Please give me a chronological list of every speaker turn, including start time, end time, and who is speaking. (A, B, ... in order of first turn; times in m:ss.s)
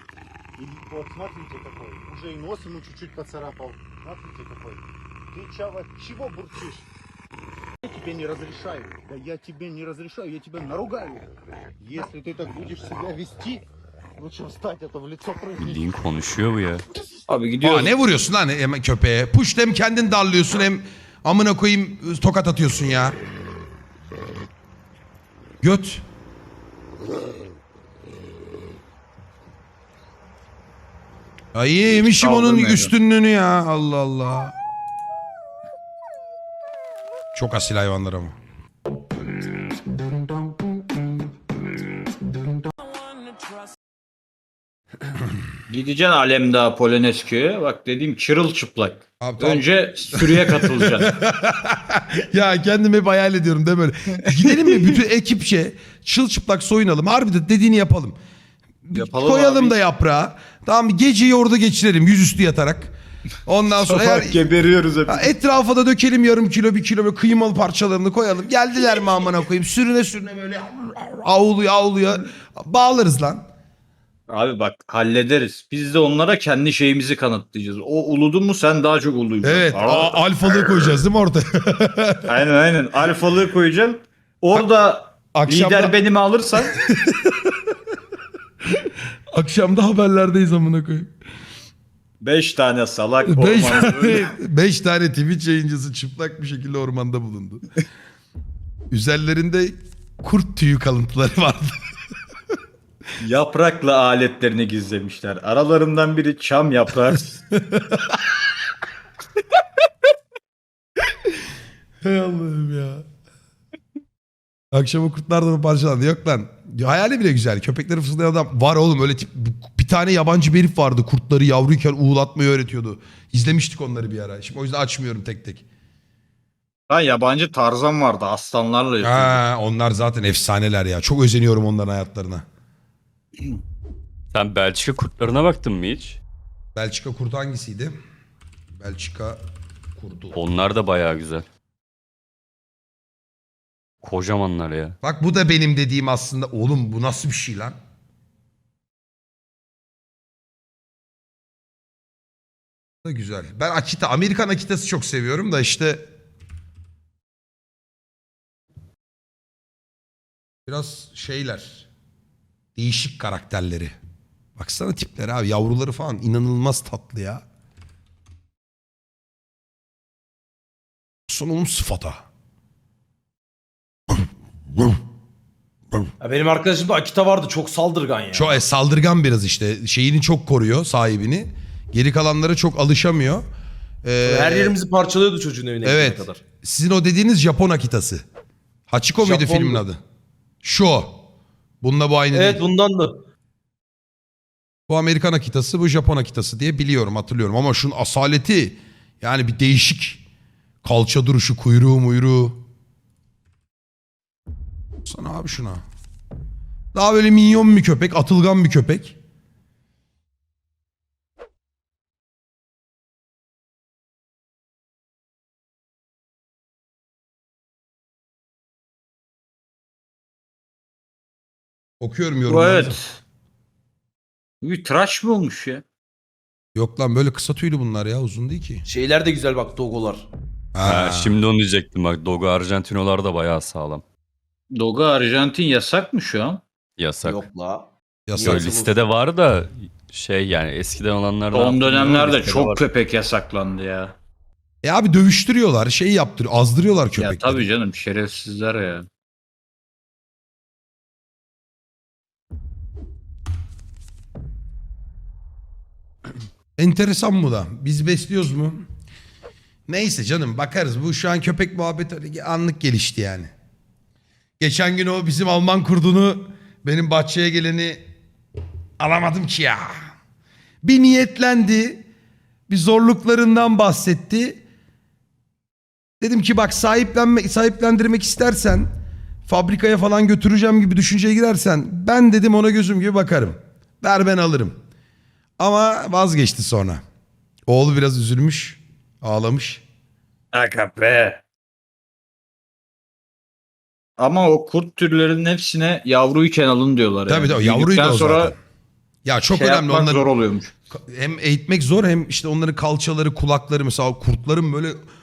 0:00.6-0:04.8 A
0:05.3-0:06.8 A
0:07.8-0:11.3 A
0:11.8-0:13.6 A
0:14.2-0:15.7 A
0:15.6-0:16.8 B
0:17.3-0:17.9 C
0:17.6-0:23.2 D
0:25.6-0:26.0 D
0:31.5-0:34.5 D
0:32.0-0:32.9 C
0:37.3-0:38.3 D
0:45.7-0:51.1 C
0:49.2-0:58.2 D
0:58.8-1:02.9 D
0:58.9-0:59.8 C
1:03.4-1:04.5 D
1:03.7-1:05.3 C
1:05.1-1:13.4 D
1:14.3-1:21.0 C
1:19.4-1:22.3 D
1:22.3-1:26.8 C
1:25.3-1:26.0 D
1:26.9-1:27.5 D
1:29.3-1:31.1 D
1:32.2-1:34.3 C
1:33.2-1:37.7 D
1:38.9-1:41.8 D
1:43.2-1:47.3 C
1:47.5-1:48.2 D
1:52.0-1:53.0 D
1:54.7-2:05.6 D
2:06.9-2:09.4 C
2:09.0-2:12.4 D
2:14.3-2:16.2 B
2:16.7-2:17.9 D
2:18.7-2:19.4 D
2:20.0-2:20.4 D
2:20.3-2:21.4 B
2:24.0-2:24.9 B
2:25.0-2:27.8 D
2:33.0-2:36.1 D
2:40.6-2:41.9 D
2:42.8-2:44.0 D
2:44.6-2:47.4 D
2:51.3-2:52.2 D
2:56.2-2:58.6 E
2:58.3-3:03.4 D
3:04.0-3:04.8 D
3:04.2-3:06.4 E
3:05.8-3:08.2 D
3:08.9-3:10.0 D
3:09.2-3:09.8 E
3:10.6-3:11.2 D
3:11.8-3:12.6 D
3:12.3-3:13.2 E
3:14.9-3:20.2 D
3:20.8-3:22.6 D
3:25.0-3:25.8 D
3:26.9-3:29.2 D
3:42.0-3:43.0 D
3:42.5-3:43.2 C
3:44.6-3:45.8 C
3:46.7-3:48.8 D
3:48.8-3:50.3 E
3:50.7-3:51.4 D
3:50.8-3:54.0 B
3:54.7-3:56.6 C
3:57.0-3:57.4 B
3:57.2-3:57.9 E
3:58.3-3:58.6 D
3:58.4-4:02.8 B
3:58.4-3:58.9 E
4:01.5-4:04.2 C
4:04.8-4:07.7 D
4:07.2-4:09.0 C
4:16.8-4:18.8 D
4:19.9-4:23.5 D
4:24.6-4:28.0 D
4:29.0-4:30.1 D
4:30.8-4:32.1 D
4:32.7-4:34.6 D
4:36.2-4:38.9 D
4:39.5-4:44.8 D
4:45.6-4:47.0 D
4:47.7-4:49.8 D
4:50.5-4:51.4 C
4:54.2-4:58.5 C
4:57.3-4:58.6 D
4:59.2-5:00.3 D
4:59.5-5:00.7 C
5:00.9-5:05.0 D